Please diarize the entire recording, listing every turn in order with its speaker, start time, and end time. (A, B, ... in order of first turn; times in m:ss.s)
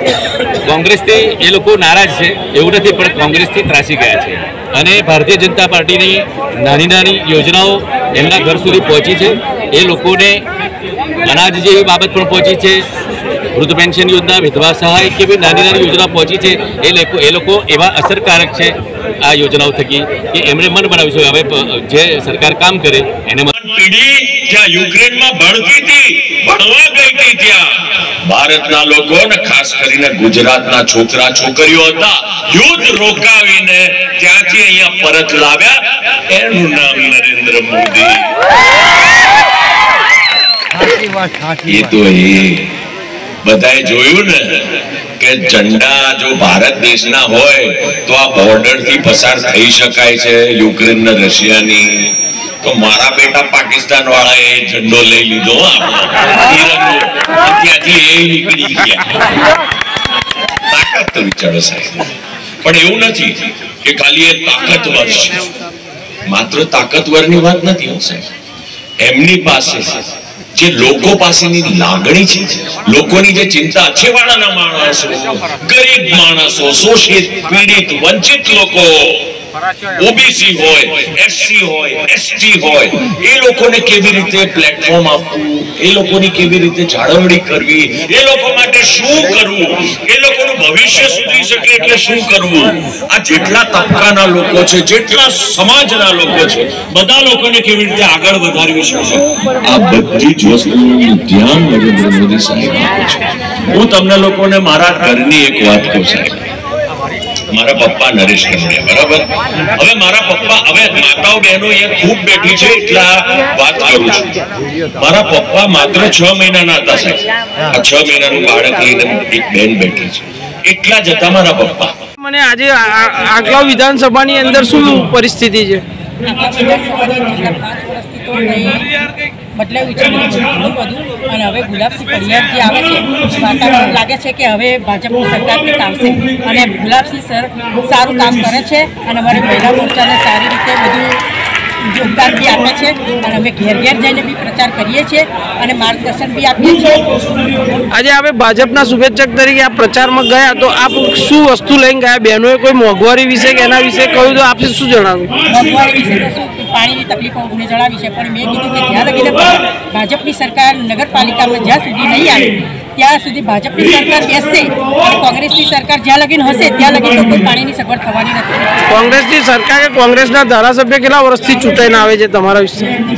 0:00.6-0:10.4 A
0:11.2-0:12.8 A
0:13.5-0:23.5 A
0:23.6-0:27.6 B
0:28.2-0:38.3 B
0:41.6-0:42.7 B
0:43.4-0:59.1 B
1:00.7-1:05.4 B
1:06.3-1:08.3 B
1:09.0-1:19.3 B
1:19.9-1:46.4 B
1:47.5-1:49.2 B
1:49.8-1:54.3 B
1:54.9-2:01.9 B
2:02.2-2:05.8 C
2:06.2-2:08.9 D
2:09.5-2:21.2 D
2:21.8-2:27.2 D
2:27.9-2:35.3 C
2:35.5-2:48.8 D
2:48.9-2:53.0 C